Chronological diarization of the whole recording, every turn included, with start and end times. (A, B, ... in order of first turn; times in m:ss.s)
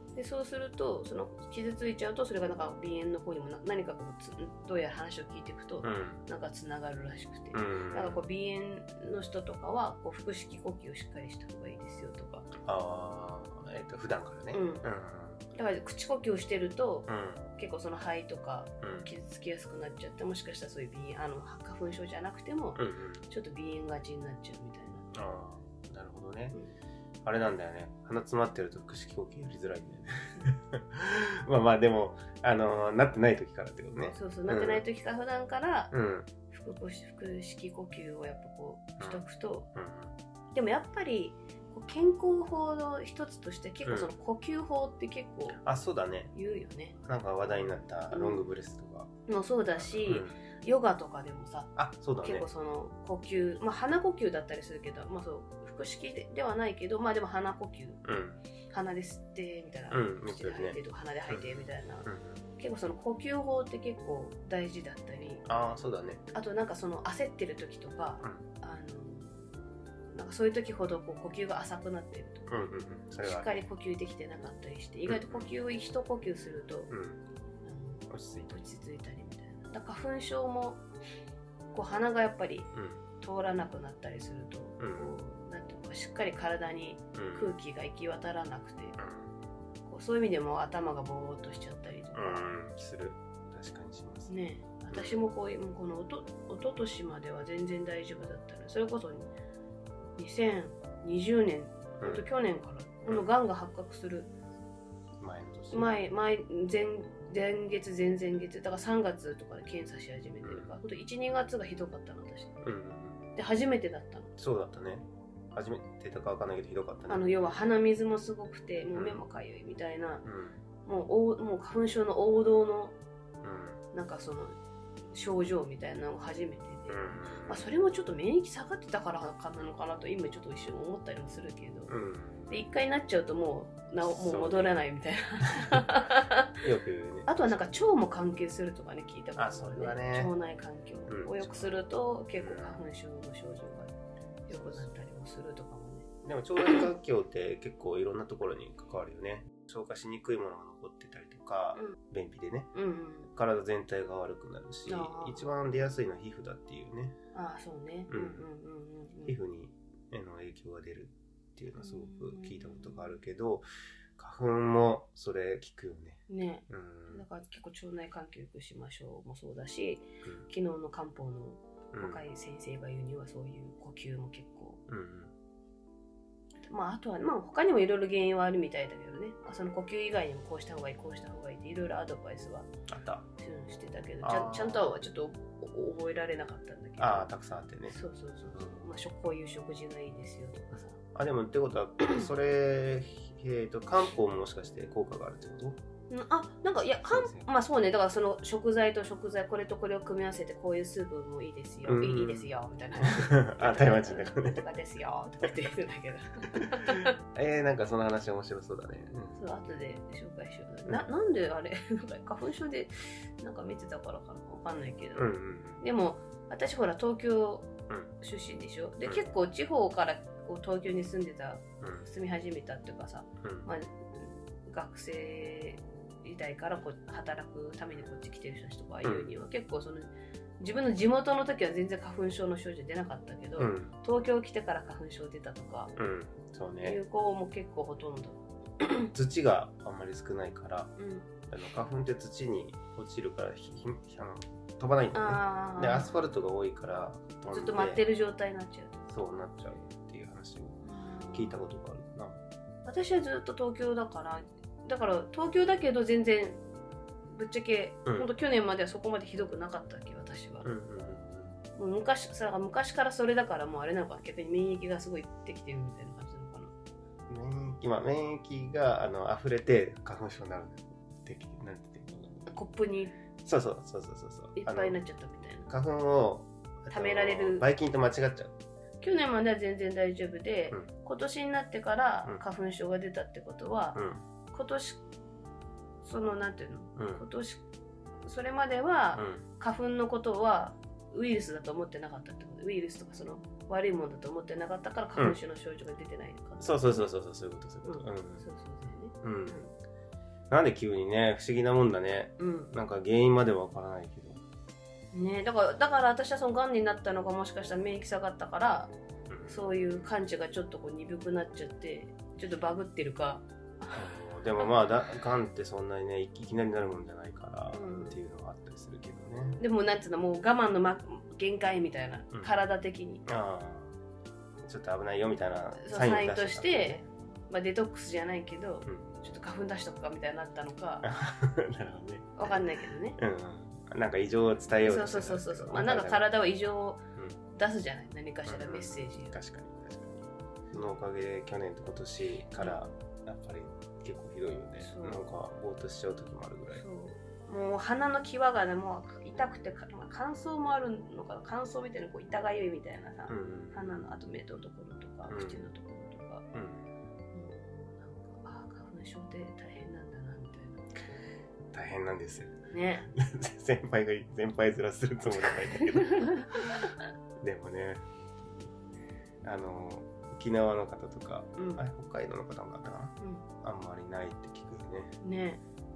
0:00.2-0:12.5 A
0:05.8-0:06.2 B
0:07.5-0:08.2 B
0:12.6-0:15.4 B
0:14.5-0:14.9 A
0:15.5-0:25.1 A
0:17.1-0:17.5 B
0:18.8-0:19.1 B
0:22.8-0:23.2 B
0:25.1-0:26.6 B
0:27.2-0:34.8 B
0:34.1-0:35.9 A
0:35.9-0:36.3 B
0:36.5-0:39.7 A
0:39.0-0:40.1 B
0:40.5-0:45.6 A
0:43.8-0:44.1 B
0:45.6-0:46.3 B
0:46.3-0:47.0 A
0:47.0-0:49.1 B
0:48.1-0:48.5 A
0:49.3-0:58.0 A
0:49.8-0:50.4 B
0:51.8-0:52.5 B
0:58.0-0:58.4 B
0:58.7-1:05.5 A
0:59.9-1:02.4 B
1:05.5-1:06.2 B
1:06.3-1:09.5 A
1:10.1-1:12.5 A
1:12.5-1:13.6 B
1:13.2-1:16.9 A
1:15.1-1:15.5 B
1:16.9-1:17.2 B
1:17.6-1:20.8 A
1:18.1-1:18.6 B
1:21.7-1:29.0 A
1:22.7-1:23.0 B
1:24.8-1:25.2 B
1:27.1-1:27.6 B
1:29.0-1:29.3 B
1:29.8-1:32.5 A
1:32.2-1:34.3 B
1:34.3-1:39.3 A
1:34.9-1:35.2 B
1:40.2-1:44.3 A
1:42.0-1:42.3 B
1:45.2-1:46.0 B
1:45.7-1:52.6 A
1:50.4-1:50.7 B
1:52.6-1:53.2 B
1:53.4-1:54.3 A
1:54.4-1:57.4 B
1:57.1-2:00.2 A
1:58.9-1:59.2 B
2:00.2-2:00.6 B
2:00.8-2:03.0 A
2:03.4-2:03.8 B
2:03.9-2:04.6 A
2:05.1-2:16.6 A
2:06.9-2:07.6 B
2:11.9-2:12.7 B
2:14.0-2:14.8 B
2:16.6-2:17.5 B
2:17.3-2:24.0 A
2:19.4-2:20.3 B
2:21.1-2:21.7 B
2:22.4-2:22.8 B
2:24.5-2:26.1 A
2:24.5-2:24.9 B
2:26.2-2:32.7 B
2:32.7-2:33.3 A
2:33.3-2:37.2 B
2:34.8-2:35.5 A
2:37.3-2:39.4 A
2:38.1-2:38.5 B
2:39.3-2:43.7 B
2:41.8-2:43.1 A
2:44.2-2:47.3 B
2:46.3-2:54.8 A
2:51.9-2:52.2 B
2:54.9-2:55.3 B
2:56.7-3:02.7 A
3:02.9-3:03.3 B
3:03.4-3:07.3 A
3:04.2-3:05.0 B
3:07.0-3:08.0 B
3:07.9-3:11.0 A
3:08.5-3:08.9 B
3:11.2-3:15.8 B
3:16.1-3:27.1 A
3:17.0-3:17.5 B
3:21.8-3:24.6 B
3:27.3-3:29.4 B
3:29.4-3:56.0 A
3:35.2-3:35.8 B
3:41.8-3:42.1 B
3:43.4-3:43.7 B
3:49.0-3:49.3 B
3:53.6-3:53.9 B
3:56.0-3:57.0 B
3:56.8-3:59.1 A
3:59.1-4:00.9 B
4:01.0-4:01.3 A
4:01.5-4:08.0 B
4:05.1-4:06.1 A
4:07.5-4:09.1 A
4:09.1-4:10.8 B
4:10.8-4:11.6 A
4:11.3-4:12.4 B
4:12.8-4:16.6 A
4:17.3-4:20.7 A
4:20.6-4:21.6 B
4:21.8-4:26.7 A
4:27.3-4:32.5 B
4:32.5-4:33.2 A
4:33.4-4:35.0 B
4:34.6-4:35.7 A
4:35.6-4:38.5 B
4:36.9-4:37.7 A
4:39.0-4:45.0 A
4:44.0-4:44.2 B
4:46.0-4:47.6 A
4:47.0-4:47.2 B
4:48.2-4:57.0 A
4:49.2-4:49.4 B
4:56.6-4:58.4 B
4:57.8-4:59.7 A
4:59.2-4:59.6 B
5:00.5-5:04.4 B
5:02.4-5:02.7 A
5:05.1-5:08.9 A
5:09.3-5:09.7 B
5:09.5-5:14.1 A
5:13.9-5:19.6 B
5:17.7-5:18.2 A
5:19.6-5:23.2 A
5:23.2-5:24.0 B
5:24.6-5:27.1 B
5:25.8-5:31.1 A
5:28.9-5:29.1 B
5:31.0-5:32.6 B
5:32.4-5:33.2 A
5:33.2-5:36.3 B
5:34.8-5:39.4 A
5:38.5-5:46.8 B
5:42.6-5:42.8 A
5:44.8-5:45.3 A
5:46.8-5:56.5 A
5:53.3-5:54.0 B
5:55.3-5:55.6 B
5:56.5-5:56.9 B
5:57.3-6:00.9 A
6:01.7-6:06.9 B
6:02.7-6:03.1 A
6:07.4-6:08.0 B
6:09.4-6:15.1 B
6:11.6-6:11.8 A
6:13.2-6:13.5 A
6:15.2-6:15.6 A